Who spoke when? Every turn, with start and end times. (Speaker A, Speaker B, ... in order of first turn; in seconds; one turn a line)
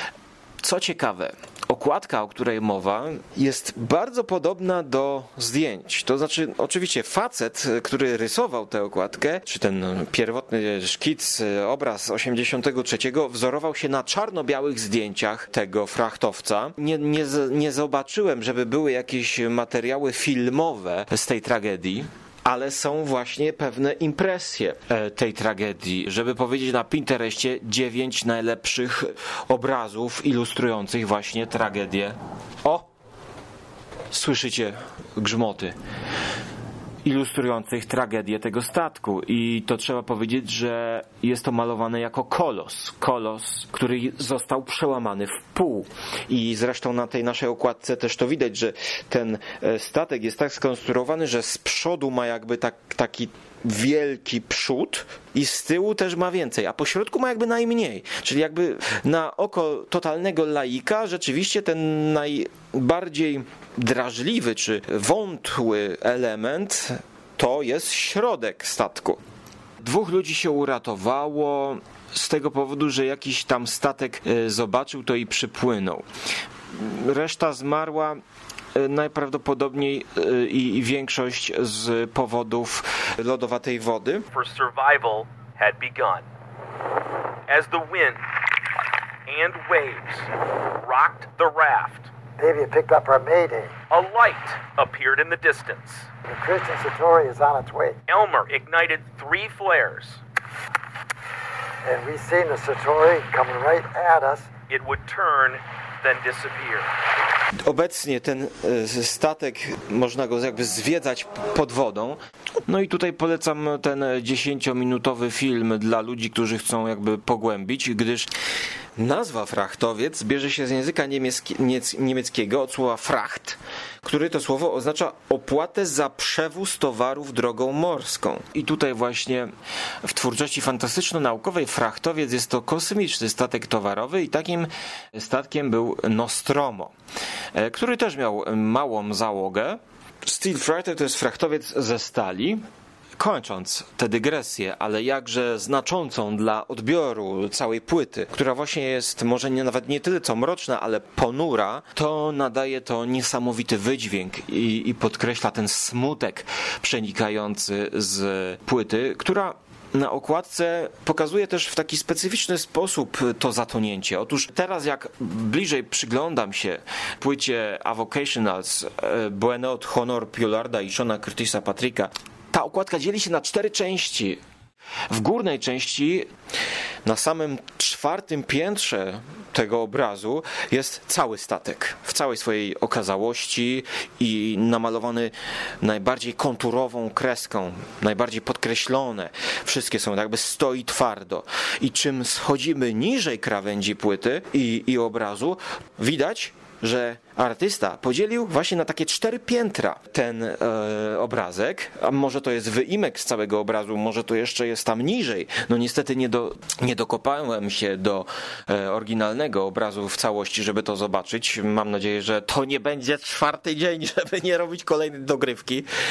Speaker A: 0.6-32.9
Speaker A: 34.1-35.7
Speaker A: 37.0-69.2
Speaker A: 69.8-76.0
Speaker A: 76.7-78.2
Speaker A: 78.7-84.3
Speaker B: 84.3-86.2
Speaker B: 87.5-88.2
Speaker B: 89.2-92.1
Speaker C: 92.3-93.7
Speaker B: 93.9-96.1
Speaker C: 96.2-98.0
Speaker B: 98.1-100.2
Speaker C: 101.8-104.5
Speaker B: 104.7-106.9
Speaker A: 107.6-118.3
Speaker A: 119.0-129.5
Speaker A: 130.0-136.9
Speaker A: 137.5-142.6
Speaker A: 143.2-174.4
Speaker A: 175.1-176.3
Speaker A: 177.0-215.9